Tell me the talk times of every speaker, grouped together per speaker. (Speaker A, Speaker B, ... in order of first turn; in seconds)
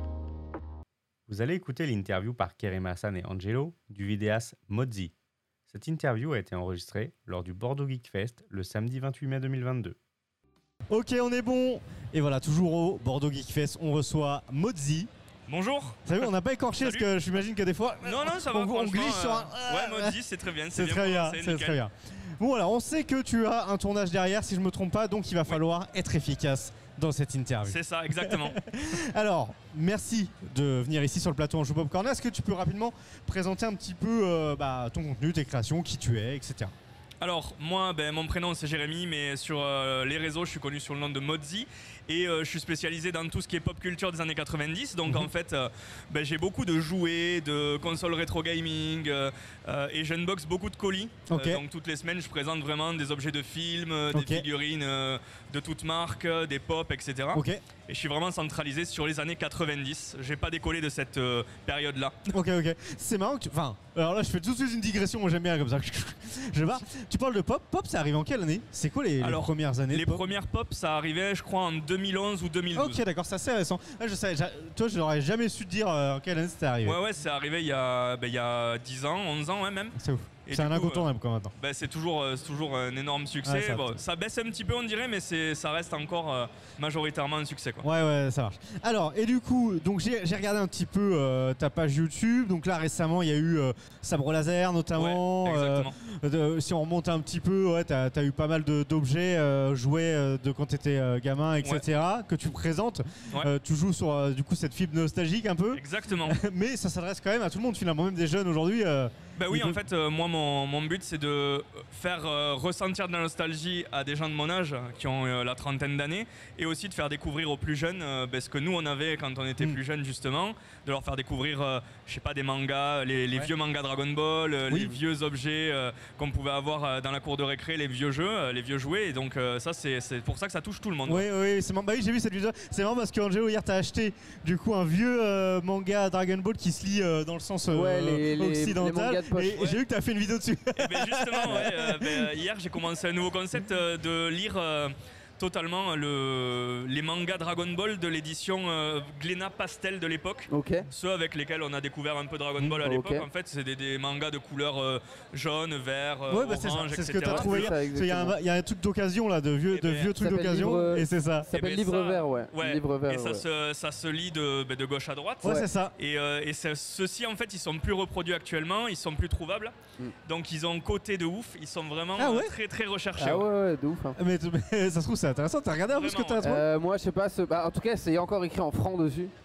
Speaker A: 1.3-5.1, 5.7-10.0
Speaker B: 10.9-15.1, 16.1-20.2, 20.7-36.7, 51.3-51.6, 54.1-54.5, 57.3-57.6, 62.3-70.3, 72.7-77.0, 80.0-81.5, 83.4-84.0, 87.8-109.8, 124.7-125.0, 131.1-142.3, 156.3-161.5, 165.4-165.9, 172.2-172.5, 174.2-176.6
Speaker C: 15.5-17.1, 18.0-21.8, 27.6-28.6, 37.2-62.2, 69.2-73.0, 76.8-81.0, 81.6-87.8, 95.0-95.9, 105.7-106.4, 109.3-131.2, 140.8-157.7, 159.7-160.1, 161.5-169.7, 170.2-173.4, 175.9-176.4
Speaker D: 137.7-139.7, 150.5-150.9, 152.8-153.3, 157.3-158.3, 160.2-163.4, 173.2-174.2, 176.4-179.3